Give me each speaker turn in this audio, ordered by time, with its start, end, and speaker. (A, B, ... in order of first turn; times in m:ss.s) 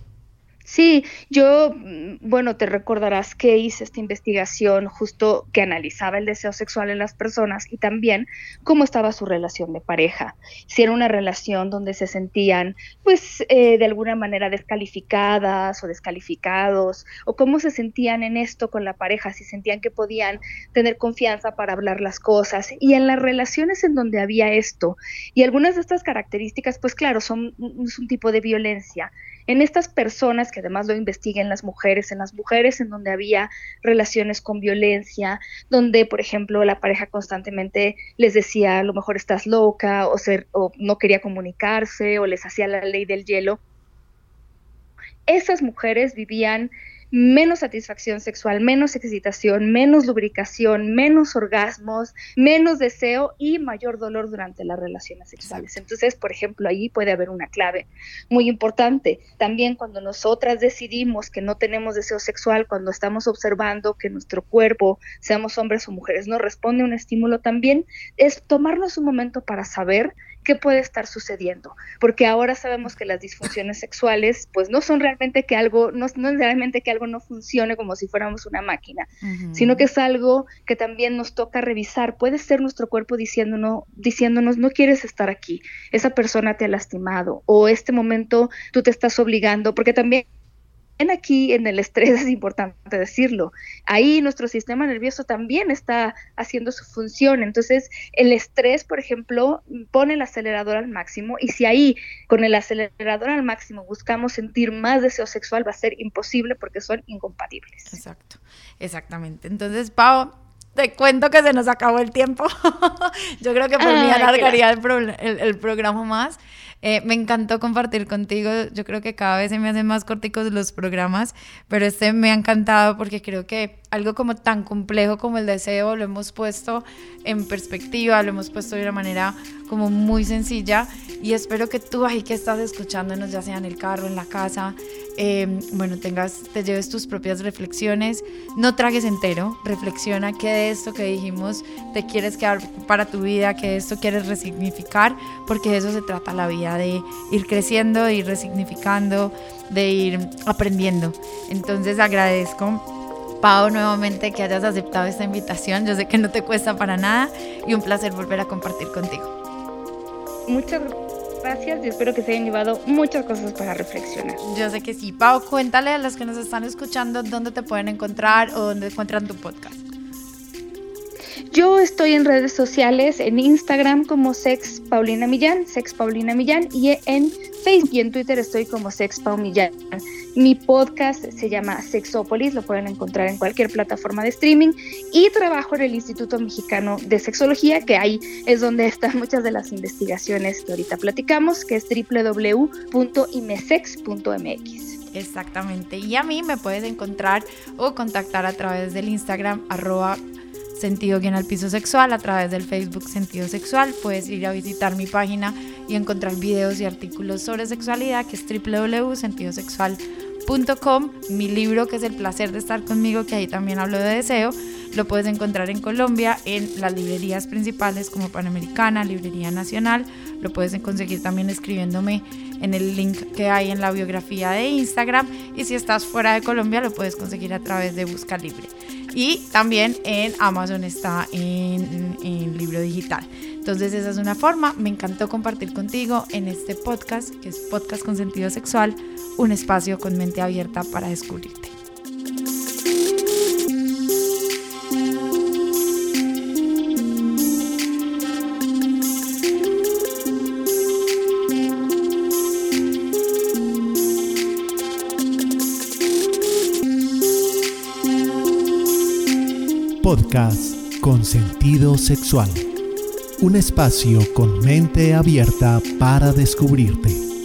0:00.6-0:43.6 A
0:45.3-1:30.2 A
0:55.4-0:55.8 B
1:19.2-1:19.9 B
1:31.0-1:48.0 A
1:47.9-2:32.8 B
1:53.8-1:54.6 A
2:33.4-2:39.3 B
2:40.5-2:44.4 A
2:44.4-2:49.8 B
2:51.5-3:15.0 A
3:15.1-3:20.2 B
3:20.8-4:01.7 B
4:20.0-4:22.7 C
4:23.4-4:27.3 C